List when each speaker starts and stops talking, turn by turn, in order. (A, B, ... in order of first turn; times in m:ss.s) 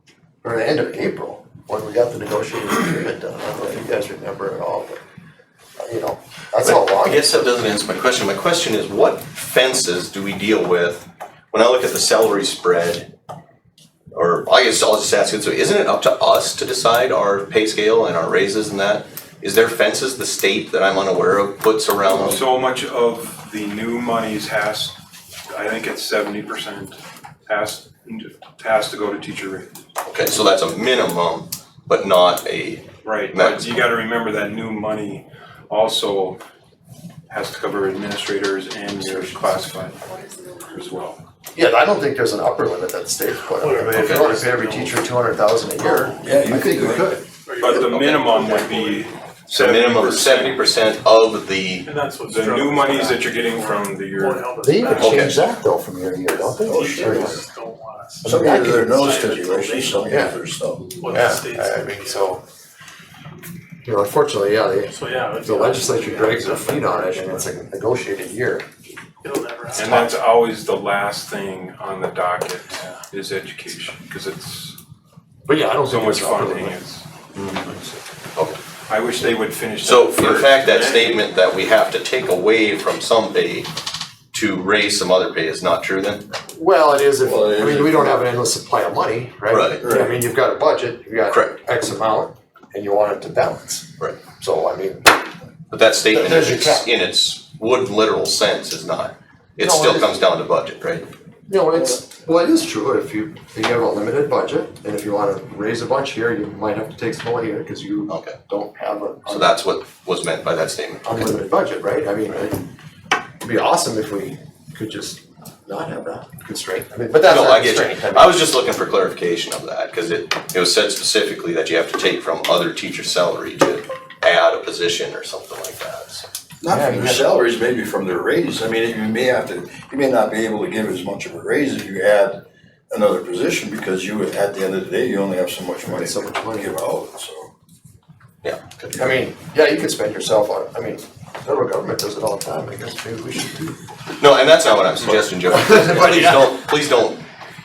0:00.4-0:05.0 A
0:05.8-0:07.3 A
0:06.6-0:13.1 B
0:14.1-0:22.4 B
0:22.1-0:24.9 C
0:25.5-0:29.7 C
0:30.0-0:33.9 B
0:33.0-0:36.4 C
0:37.3-0:40.1 C
0:40.6-0:41.2 C
0:41.5-0:47.2 A
0:43.5-0:45.1 D
0:44.0-0:44.2 B
0:45.8-0:46.8 D
0:46.2-0:47.1 E
0:47.4-0:49.1 D
0:47.6-0:50.6 C
0:49.5-0:51.9 B
0:51.8-0:55.4 D
0:52.2-0:54.5 C
0:54.6-0:57.4 A
0:54.9-0:55.3 B
0:56.3-1:02.3 D
0:56.6-0:57.4 E
0:58.2-0:59.2 A
0:58.2-1:00.9 E
1:00.1-1:00.4 A
1:01.1-1:02.4 A
1:03.8-1:08.6 A
1:04.8-1:07.5 D
1:09.2-1:10.1 D
1:09.7-1:14.8 C
1:15.5-1:16.8 A
1:15.9-1:17.0 C
1:17.3-1:18.0 A
1:18.9-1:21.2 C
1:19.8-1:23.7 B
1:24.3-1:26.3 B
1:26.5-1:35.1 A
1:27.2-1:28.2 E
1:29.5-1:29.8 B
1:29.8-1:30.2 E
1:31.3-1:31.6 B
1:35.7-1:41.1 B
1:36.1-1:36.9 A
1:39.6-1:40.2 A
1:41.5-1:49.5 A
1:48.1-1:48.4 B
1:49.3-1:51.3 B
1:51.0-1:52.6 A
1:53.4-1:58.4 A
1:57.2-2:06.2 B
2:06.6-2:17.5 E
2:06.7-2:07.5 A
2:15.8-2:16.8 A
2:18.4-2:19.2 B
2:19.0-2:23.8 A
2:24.2-2:27.2 B
2:25.7-2:26.0 A